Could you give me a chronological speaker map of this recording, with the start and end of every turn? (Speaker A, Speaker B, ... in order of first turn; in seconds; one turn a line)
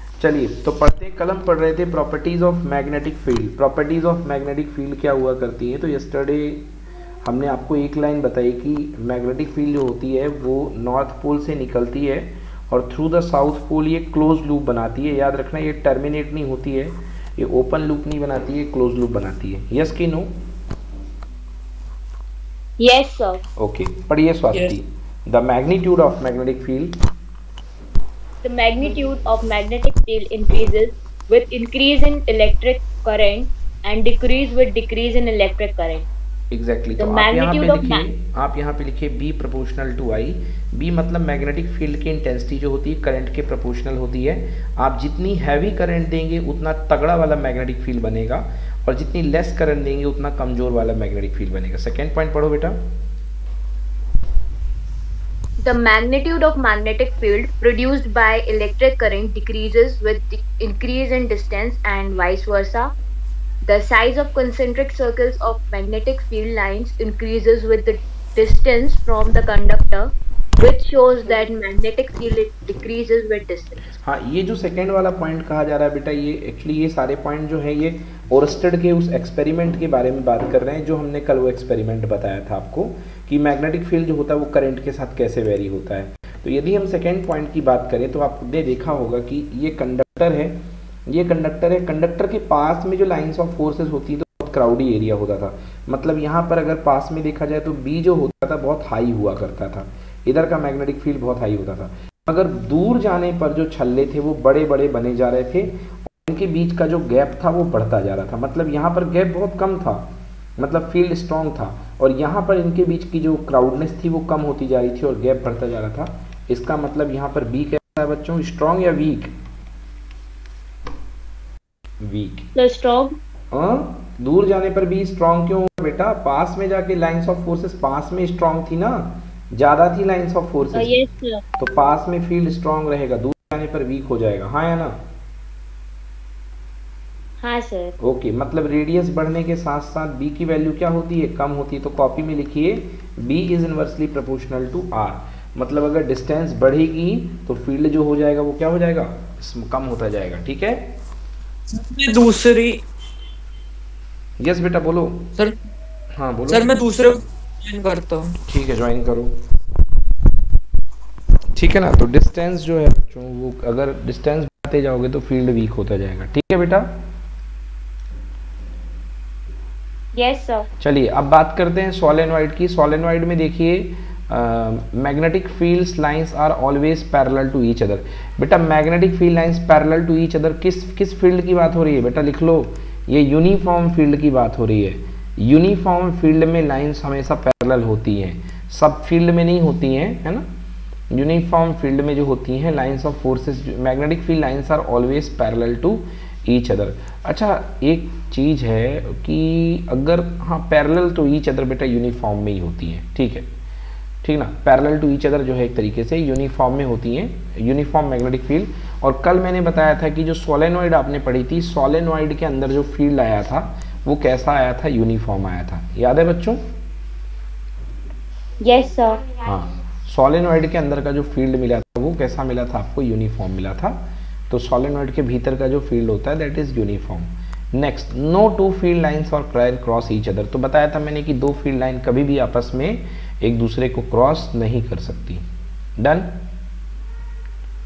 Speaker A: 0.2-6.7
Speaker A: 7.2-20.3
Speaker B: 22.8-23.4
Speaker A: 23.6-27.0
Speaker B: 28.4-36.1
Speaker A: 36.5-52.8
Speaker B: 37.0-38.0
Speaker B: 55.6-62.9
Speaker B: 63.6-73.9
Speaker A: 74.0-119.3
Speaker A: 122.0-122.5
Speaker B: 122.5-123.2
Speaker A: 123.5-130.9
Speaker B: 130.7-131.4
Speaker A: 131.6-135.0
Speaker B: 137.4-137.9
Speaker A: 138.0-150.9
Speaker C: 151.7-152.8
Speaker A: 154.4-155.3
Speaker A: 156.2-157.1
Speaker C: 156.5-158.4
Speaker A: 158.5-159.4
Speaker A: 161.5-167.0
Speaker B: 170.1-170.7
Speaker A: 170.8-190.5
Speaker A: 191.1-203.5
Speaker A: 204.2-216.6
Speaker B: 218.6-219.2
Speaker A: 219.4-235.5
Speaker A: 236.0-236.4